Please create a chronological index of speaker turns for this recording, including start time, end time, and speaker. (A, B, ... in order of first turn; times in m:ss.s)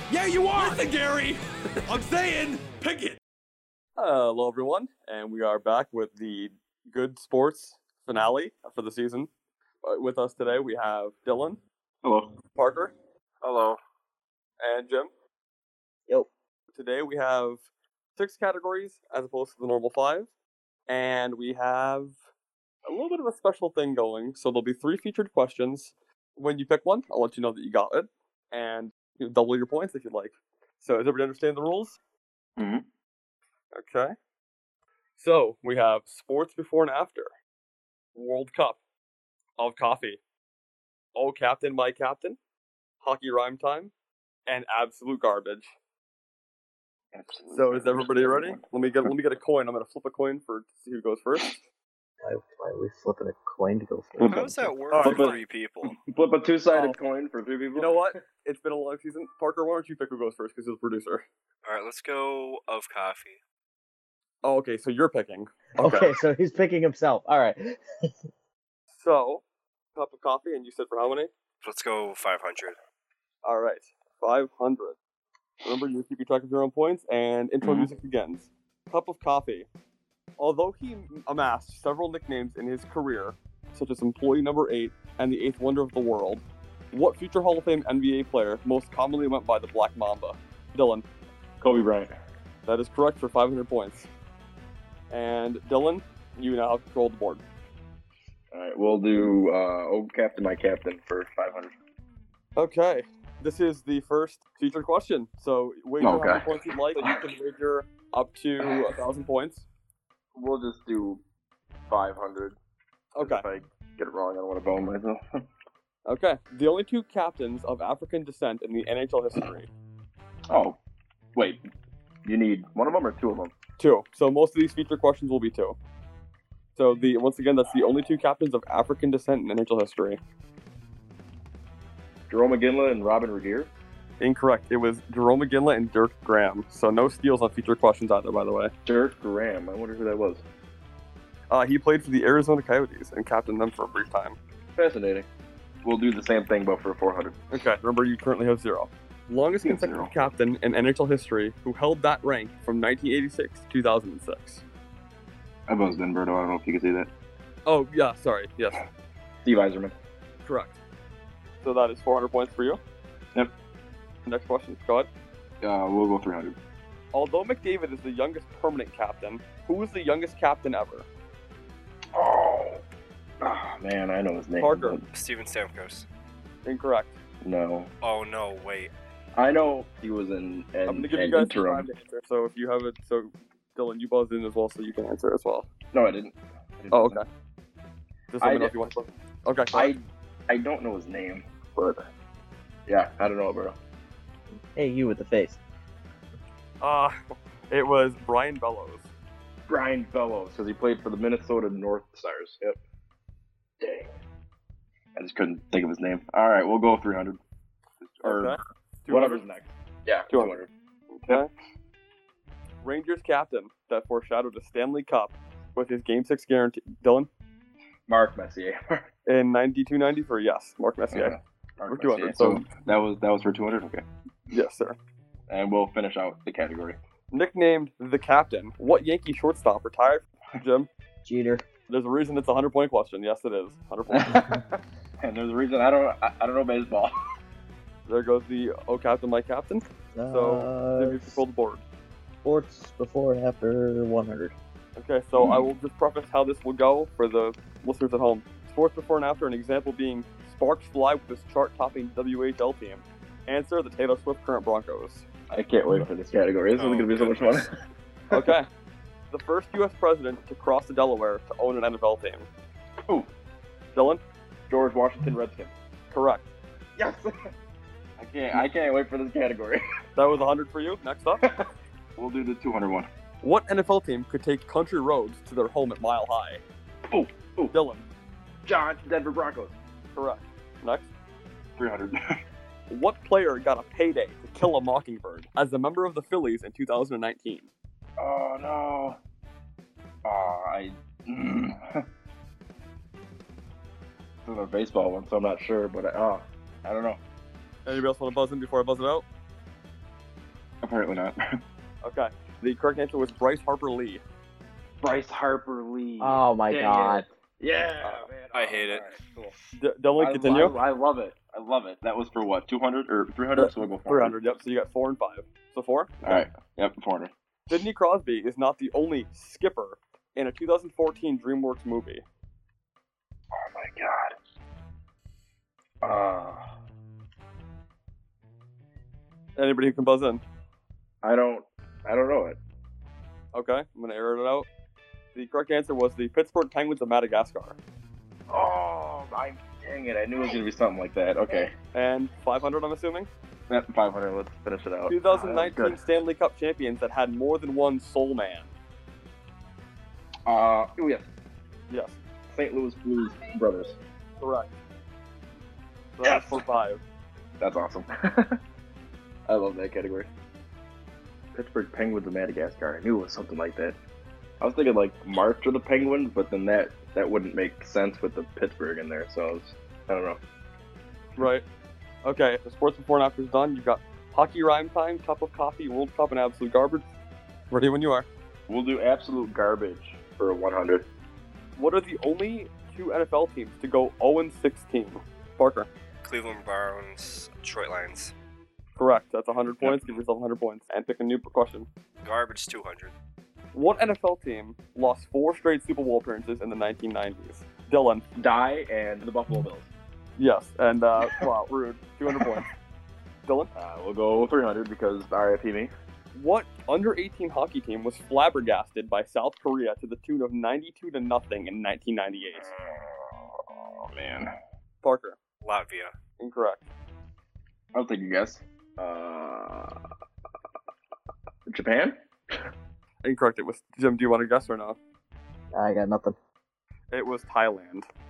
0:00.1-0:00.8 A
0:00.5-0:03.2 B
0:01.9-0:03.2 A
0:04.0-0:09.3 B
0:09.8-0:11.6 B
0:12.0-0:12.3 C
0:12.5-0:12.9 B
0:13.4-0:13.8 C
0:14.6-0:15.1 B
0:16.7-0:17.6 B
0:18.2-0:20.3 B
0:20.9-0:22.1 B
0:22.9-0:32.0 B
0:32.6-0:32.8 C
0:33.7-0:34.1 B
0:35.2-0:37.3 B
0:38.1-0:38.8 B
0:39.6-0:40.2 B
0:41.2-0:42.4 B
0:43.0-0:43.9 B
0:44.5-0:45.7 B
0:47.1-0:49.1 C
0:47.5-0:51.6 B
0:52.2-0:54.7 D
0:54.2-0:55.4 C
0:54.2-0:56.0 E
0:54.9-0:55.4 B
0:56.0-0:58.1 C
0:56.7-0:57.0 B
0:57.7-1:01.2 B
1:01.6-1:03.4 E
1:04.4-1:06.1 B
1:05.8-1:07.8 D
1:08.9-1:09.4 B
1:09.9-1:11.3 B
1:11.6-1:12.8 E
1:13.4-1:15.0 B
1:15.6-1:19.7 B
1:20.4-1:31.0 B
1:31.6-1:32.1 C
1:32.6-1:34.1 B
1:35.1-1:37.4 B
1:38.5-1:41.7 C
1:42.6-1:49.6 B
1:46.0-1:47.2 C
1:48.6-1:48.9 C
1:50.4-1:51.2 C
1:51.9-1:52.6 C
1:53.2-1:53.5 B
1:53.2-1:55.2 C
1:56.1-1:59.7 B
2:00.5-2:00.8 C
2:01.4-2:01.6 C
2:02.2-2:03.5 C
2:03.8-2:05.8 B
2:06.8-2:10.2 B
2:12.3-2:13.7 C
2:14.2-2:18.7 B
2:18.8-2:20.4 C
2:21.5-2:24.4 B
2:24.8-2:25.3 C
2:25.8-2:27.4 C
2:27.5-2:34.6 B
2:29.6-2:30.2 C
2:35.7-2:37.1 C
2:37.6-2:38.8 B
2:39.4-2:39.9 C
2:40.4-2:40.8 B
2:41.6-2:42.8 B
2:44.2-2:45.1 B
2:45.6-2:46.6 C
2:47.1-2:51.1 B
2:52.1-2:52.8 C
2:53.4-2:55.1 C
2:54.6-2:55.0 B
2:55.1-2:56.0 E
2:56.6-2:57.2 B
2:57.4-2:57.9 C
2:58.0-2:58.9 E
2:59.4-3:01.9 C
3:00.9-3:05.7 B
3:05.9-3:07.2 C
3:06.9-3:07.2 B
3:08.3-3:09.9 B
3:08.4-3:08.7 C
3:09.7-3:12.1 C
3:12.9-3:13.7 C
3:14.7-3:15.6 D
3:16.8-3:17.1 B
3:17.7-3:19.0 B
3:19.7-3:22.8 C
3:23.8-3:24.1 C
3:25.1-3:27.4 C
3:28.0-3:28.6 C
3:28.2-3:29.5 B
3:29.1-3:30.7 C
3:30.3-3:30.6 B
3:31.1-3:31.5 B
3:32.8-3:37.3 B
3:38.1-3:39.0 C
3:39.3-3:41.4 B
3:41.1-3:44.0 C
3:41.9-3:42.6 B
3:44.5-3:45.0 B
3:45.5-3:47.0 C
3:47.3-3:50.9 B
3:51.2-3:51.6 D
3:51.9-3:54.4 B
3:54.1-3:54.6 C
3:55.2-3:57.1 C
3:58.1-4:01.8 B
4:00.1-4:01.4 D
4:02.4-4:04.5 D
4:05.0-4:15.2 B
4:15.5-4:17.7 C
4:16.7-4:17.7 E
4:18.3-4:18.6 C
4:18.3-4:18.7 B
4:19.3-4:22.5 B
4:23.9-4:24.2 B
4:24.7-4:25.7 C
4:26.1-4:26.5 B
4:27.0-4:27.3 C
4:28.2-4:29.8 C
4:30.2-4:31.4 B
4:32.2-4:33.1 C
4:33.4-4:36.6 B
4:37.1-4:37.7 C
4:37.7-4:38.1 B
4:38.6-4:39.8 C
4:40.1-4:41.1 B
4:41.8-4:42.2 C
4:42.9-4:47.7 B
4:48.2-4:49.2 C
4:50.2-4:52.0 C
4:54.4-4:57.2 C
4:57.8-4:59.2 B
5:00.8-5:01.4 C
5:02.0-5:04.2 B
5:05.0-5:09.6 C
5:06.2-5:07.2 D
5:08.0-5:08.3 B
5:08.5-5:09.1 E
5:09.8-5:10.7 B
5:10.2-5:14.4 C
5:13.6-5:16.4 B
5:16.2-5:17.3 C
5:17.7-5:22.2 B
5:23.5-5:24.3 C
5:26.0-5:26.6 C
5:29.6-5:30.4 B
5:31.2-5:32.6 C
5:33.5-5:34.7 B
5:35.3-5:37.8 B
5:38.5-5:41.7 C
5:41.9-5:43.3 B
5:43.7-5:46.0 C
5:45.1-5:48.7 B
5:50.5-5:51.2 C
5:51.9-5:52.2 B
5:52.5-5:54.0 C
5:54.4-5:54.7 B
5:56.2-5:57.0 B
5:56.2-5:56.6 C
5:57.6-5:58.5 C
5:59.5-6:00.3 C
6:01.5-6:04.0 C
6:04.6-6:10.4 C
6:11.4-6:11.6 B
6:12.2-6:17.0 B
6:17.7-6:18.3 B
6:18.7-6:21.0 C
6:21.8-6:25.9 B
6:26.2-6:28.3 E
6:29.0-6:31.9 B
6:32.2-6:33.1 E
6:33.7-6:38.2 B
6:38.4-6:39.9 C
6:40.4-6:42.7 B
6:42.4-6:42.6 C
6:43.4-6:43.7 B
6:43.7-6:45.9 C
6:46.3-6:52.7 B
6:52.6-6:54.5 C
6:55.0-6:55.4 B
6:55.6-6:56.1 E
6:56.4-6:56.9 B
6:57.9-6:59.9 C
7:01.7-7:02.1 C
7:03.2-7:05.0 B
7:05.7-7:06.4 D
7:07.1-7:08.1 B